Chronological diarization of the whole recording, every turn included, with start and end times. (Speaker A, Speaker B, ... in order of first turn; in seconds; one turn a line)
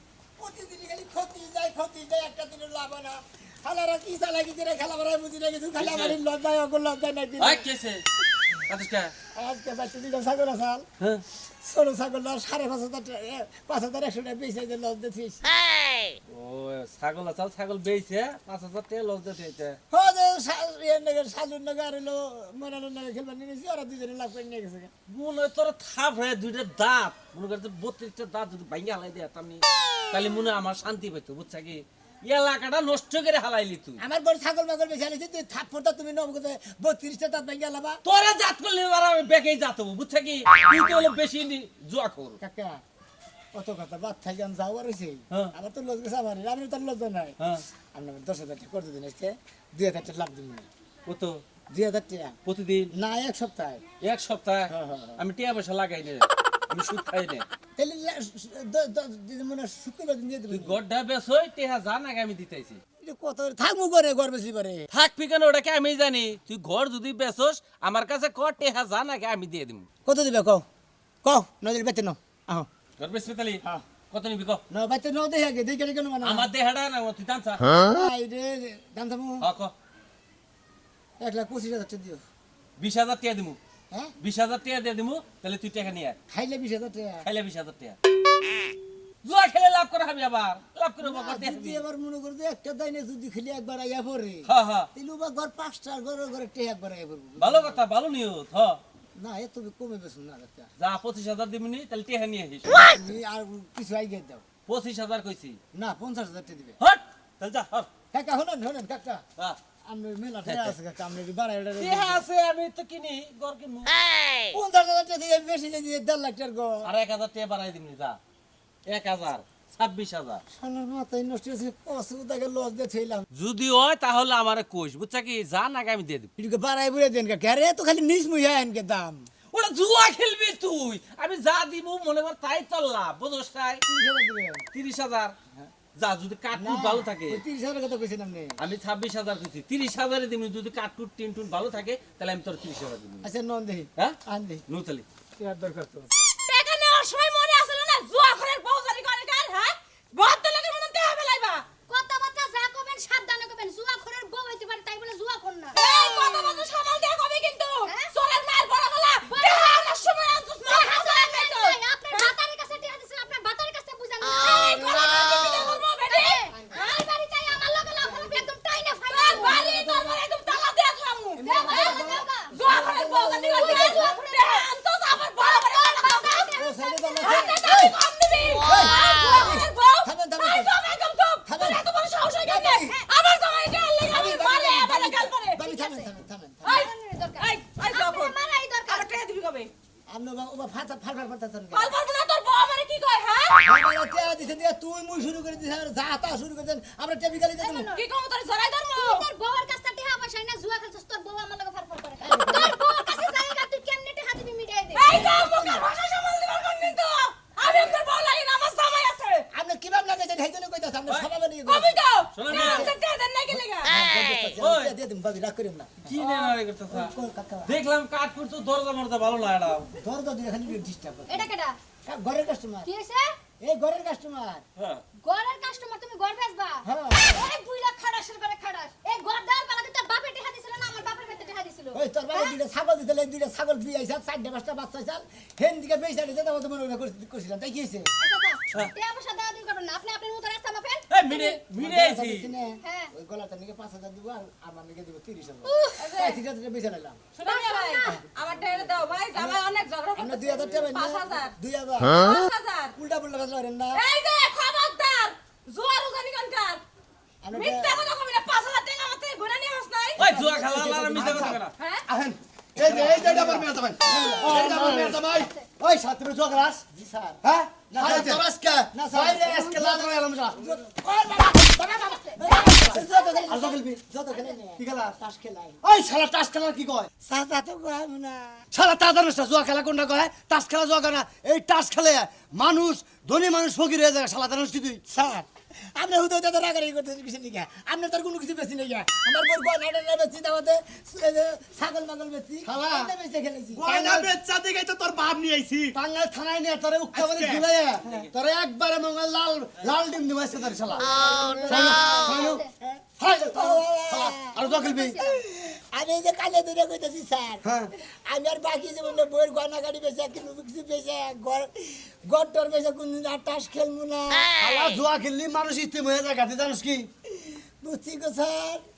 Speaker A: 0.4-7.6
Speaker B: 5.8-6.2
Speaker B: 7.4-8.0
Speaker B: 8.7-9.1
Speaker A: 9.3-10.8
Speaker A: 11.6-15.4
Speaker B: 16.3-19.8
Speaker A: 19.9-24.9
Speaker B: 25.1-34.0
Speaker A: 34.0-38.0
Speaker B: 38.0-42.4
Speaker A: 42.4-42.8
Speaker A: 43.5-47.4
Speaker B: 47.4-47.6
Speaker A: 47.9-50.7
Speaker B: 51.1-51.4
Speaker A: 51.7-52.4
Speaker B: 52.4-52.9
Speaker A: 52.9-53.8
Speaker B: 54.0-57.5
Speaker A: 54.7-55.2
Speaker A: 57.8-60.8
Speaker B: 60.5-62.8
Speaker A: 63.0-64.9
Speaker B: 64.9-69.8
Speaker A: 70.0-70.6
Speaker A: 71.2-72.7
Speaker B: 73.0-74.6
Speaker A: 74.7-76.5
Speaker B: 76.2-77.6
Speaker A: 77.8-79.5
Speaker B: 79.4-79.7
Speaker A: 81.2-82.2
Speaker B: 82.8-83.6
Speaker B: 84.2-86.2
Speaker A: 86.3-87.2
Speaker B: 87.2-88.0
Speaker B: 89.2-91.8
Speaker A: 91.0-97.8
Speaker B: 94.5-94.9
Speaker B: 97.4-98.8
Speaker A: 99.2-100.7
Speaker B: 100.8-102.9
Speaker A: 102.8-104.4
Speaker B: 104.7-105.6
Speaker A: 105.7-106.8
Speaker B: 106.8-107.9
Speaker A: 108.1-109.2
Speaker A: 109.9-112.2
Speaker B: 110.5-110.7
Speaker B: 111.8-113.9
Speaker A: 114.5-116.9
Speaker B: 116.8-118.2
Speaker B: 118.9-120.4
Speaker A: 120.5-123.2
Speaker B: 123.3-126.3
Speaker A: 126.4-129.3
Speaker B: 129.5-133.8
Speaker A: 133.9-134.7
Speaker B: 134.7-135.3
Speaker B: 136.0-137.4
Speaker A: 136.5-138.6
Speaker B: 138.6-143.3
Speaker A: 143.2-144.6
Speaker B: 144.7-145.0
Speaker A: 145.4-146.1
Speaker C: 146.5-151.6
Speaker D: 151.9-156.7
Speaker C: 155.7-162.3
Speaker D: 157.8-158.1
Speaker D: 159.2-160.1
Speaker D: 160.7-169.7
Speaker C: 164.4-167.1
Speaker A: 168.0-168.5
Speaker C: 169.1-176.5
Speaker A: 169.4-170.2
Speaker A: 171.3-174.2
Speaker D: 171.4-172.6
Speaker D: 173.5-174.7
Speaker D: 175.3-177.5
Speaker A: 176.6-177.9
Speaker C: 177.2-185.9
Speaker A: 178.6-180.7
Speaker A: 181.4-181.8
Speaker A: 182.4-183.0
Speaker A: 184.1-186.8
Speaker C: 186.6-189.7
Speaker D: 186.7-189.1
Speaker A: 190.1-191.9
Speaker C: 191.7-193.6
Speaker A: 193.6-197.9
Speaker D: 197.6-198.0
Speaker C: 197.9-199.3
Speaker D: 198.9-205.8
Speaker A: 202.2-202.8
Speaker C: 204.9-209.4
Speaker D: 207.6-207.9
Speaker A: 209.5-212.0
Speaker C: 211.7-213.9
Speaker B: 212.3-212.9
Speaker A: 212.5-212.9
Speaker A: 213.5-217.8
Speaker B: 214.6-214.9
Speaker B: 216.1-217.1
Speaker B: 217.6-219.9
Speaker A: 220.0-221.5
Speaker D: 221.3-221.8
Speaker A: 222.1-222.9
Speaker D: 222.8-223.3
Speaker A: 223.6-224.6
Speaker B: 224.8-225.0
Speaker D: 225.2-232.6
Speaker A: 226.8-227.4
Speaker A: 231.9-238.1
Speaker D: 238.2-241.6
Speaker B: 241.1-242.5
Speaker A: 241.8-247.3
Speaker D: 242.8-243.1
Speaker D: 245.7-246.1
Speaker C: 246.0-246.4
Speaker C: 247.3-251.5
Speaker D: 247.4-248.2
Speaker A: 249.3-252.4
Speaker C: 252.1-252.9
Speaker A: 252.9-254.0
Speaker C: 253.9-256.8
Speaker A: 257.4-257.9
Speaker C: 257.5-260.3
Speaker B: 260.2-261.7
Speaker A: 260.2-261.6
Speaker E: 261.1-261.6
Speaker C: 261.8-262.1
Speaker E: 262.1-265.3
Speaker F: 262.8-265.5
Speaker A: 264.1-265.0
Speaker D: 264.1-264.7
Speaker D: 265.3-265.6
Speaker E: 265.8-266.8
Speaker A: 266.9-275.8
Speaker E: 267.4-270.6
Speaker D: 271.6-273.8
Speaker E: 272.6-274.0
Speaker E: 274.8-275.1
Speaker E: 275.8-277.1
Speaker A: 277.2-278.6
Speaker E: 278.7-285.0
Speaker A: 285.1-293.9
Speaker E: 292.6-293.1
Speaker F: 293.7-295.9
Speaker E: 293.8-294.3
Speaker E: 295.9-301.1
Speaker F: 297.1-297.6
Speaker B: 298.0-298.3
Speaker D: 300.9-302.7
Speaker A: 301.1-304.6
Speaker E: 301.7-302.6
Speaker E: 303.2-305.2
Speaker D: 304.6-305.4
Speaker A: 305.2-307.6
Speaker E: 307.6-307.9
Speaker A: 308.2-314.5
Speaker E: 314.6-317.1
Speaker A: 317.3-318.8